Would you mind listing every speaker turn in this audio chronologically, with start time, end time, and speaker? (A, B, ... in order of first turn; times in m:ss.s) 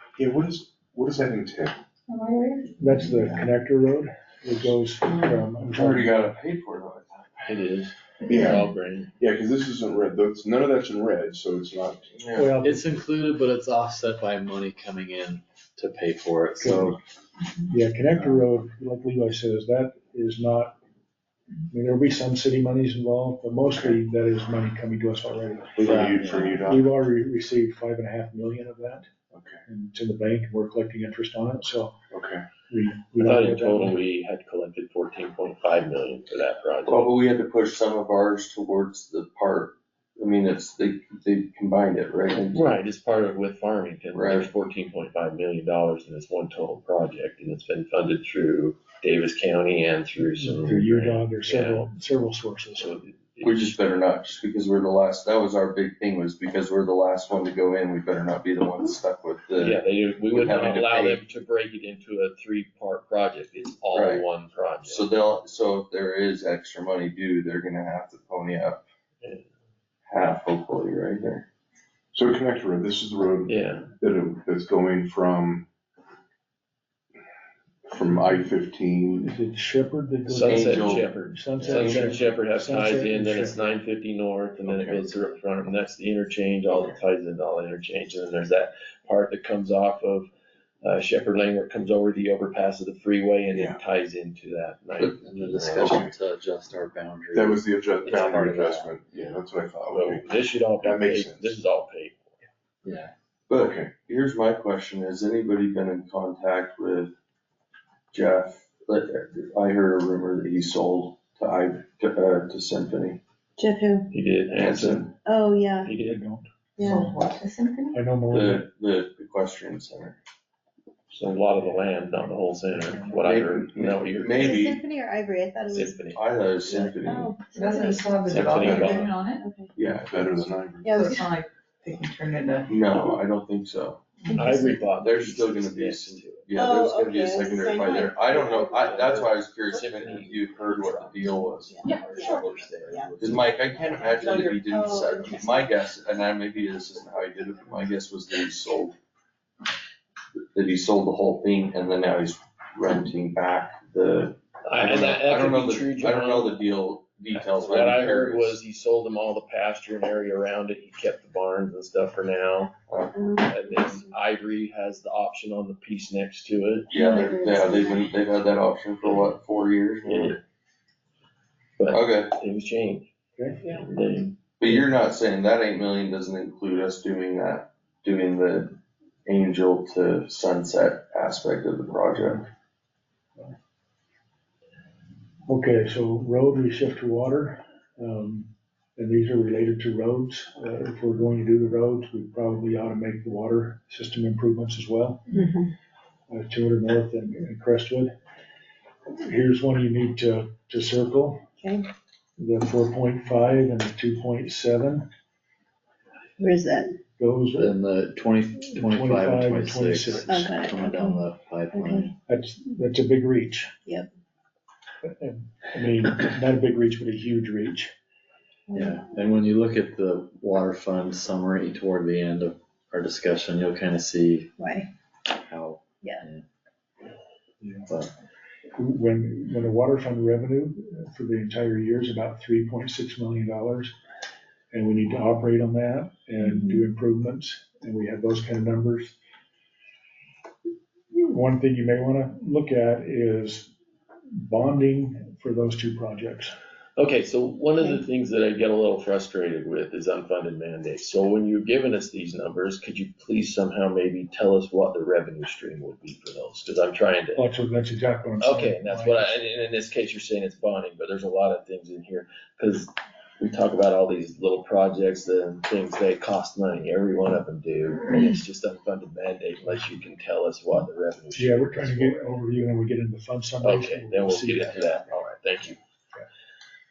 0:00.2-0:01.8 A
0:02.1-0:03.4 B
0:02.8-0:06.3 C
0:05.0-0:05.4 B
0:05.6-0:07.5 D
0:07.4-0:09.1 E
0:08.3-0:08.6 A
0:09.2-0:12.2 A
0:12.2-0:12.5 D
0:12.3-0:13.0 C
0:12.6-0:17.0 F
0:16.6-0:17.0 C
0:17.7-0:20.8 C
0:18.2-0:18.4 A
0:21.7-0:25.8 C
0:25.7-0:26.9 A
0:25.8-0:26.7 F
0:26.6-0:29.1 C
0:29.3-0:29.6 A
0:29.7-0:32.0 C
0:32.1-0:32.4 A
0:32.7-0:34.0 C
0:33.2-0:37.1 E
0:36.9-0:42.6 D
0:42.5-0:51.8 E
0:44.1-0:44.5 D
0:50.6-0:52.9 C
0:52.8-0:53.8 E
0:53.4-0:59.7 D
0:59.6-1:05.1 E
1:00.3-1:01.2 D
1:03.9-1:04.2 D
1:04.8-1:08.8 D
1:10.1-1:11.4 D
1:12.1-1:15.7 A
1:13.4-1:13.9 E
1:17.9-1:19.3 A
1:19.2-1:23.8 C
1:20.3-1:30.3 E
1:20.3-1:21.1 D
1:24.6-1:25.1 A
1:30.8-1:36.0 E
1:33.5-1:33.8 A
1:35.2-1:38.9 F
1:35.8-1:36.1 A
1:37.3-1:40.3 A
1:38.0-1:38.4 E
1:39.9-1:42.4 E
1:40.8-1:41.6 A
1:42.8-1:43.1 F
1:43.5-1:47.1 D
1:43.6-1:44.0 A
1:48.1-1:53.2 D
1:53.6-1:54.1 G
1:54.1-1:55.1 E
1:54.6-1:55.1 D
1:55.1-1:55.9 G
1:55.8-1:56.2 E
1:56.0-1:57.2 C
1:56.8-1:57.1 G
1:56.9-1:58.0 B
1:57.9-1:58.7 C
1:58.3-2:00.2 D
2:01.1-2:04.7 E
2:02.6-2:03.3 C
2:03.3-2:04.8 D
2:03.3-2:03.7 A
2:04.4-2:09.7 G
2:05.7-2:06.2 E
2:06.1-2:07.3 D
2:07.6-2:09.4 B
2:08.2-2:09.2 E
2:08.6-2:09.1 A
2:09.7-2:10.5 D
2:09.8-2:11.0 A
2:10.8-2:11.4 G
2:10.9-2:12.8 B
2:12.7-2:14.0 D
2:14.2-2:14.8 G
2:14.3-2:16.5 E
2:14.9-2:21.7 D
2:16.5-2:18.9 G
2:18.3-2:23.7 E
2:21.7-2:23.2 G
2:21.8-2:22.4 B
2:23.2-2:28.9 D
2:23.8-2:24.7 B
2:24.6-2:25.7 G
2:30.5-2:38.5 D
2:34.6-2:36.8 E
2:37.3-2:42.7 E
2:42.9-2:43.1 D
2:43.1-2:44.1 G
2:43.4-2:46.9 E
2:46.9-2:50.4 D
2:46.9-2:48.1 G
2:49.0-2:49.4 E
2:50.0-2:50.4 E
2:51.8-2:53.1 E
2:51.9-2:52.3 D
2:53.4-2:53.7 C
2:53.6-2:54.8 E
2:54.6-3:02.4 D
3:05.4-3:15.4 C
3:15.3-3:15.7 G
3:16.3-3:18.1 C
3:19.2-3:21.4 C
3:21.6-3:21.8 G
3:22.4-3:25.0 C
3:26.4-3:27.0 G
3:27.2-3:27.7 C
3:27.6-3:32.1 F
3:28.7-3:30.6 C
3:30.3-3:31.2 G
3:31.7-3:32.1 G
3:32.3-3:33.7 C
3:35.0-3:37.9 C
3:38.7-3:44.5 F
3:44.6-3:44.9 G
3:45.4-3:46.4 F
3:47.6-3:47.9 C
3:48.8-3:53.9 C
3:54.7-3:59.2 C
4:01.1-4:03.7 C
4:04.3-4:06.5 C
4:07.0-4:17.5 E
4:17.3-4:19.4 C
4:18.4-4:32.3 E
4:31.3-4:35.2 C
4:33.6-4:35.8 E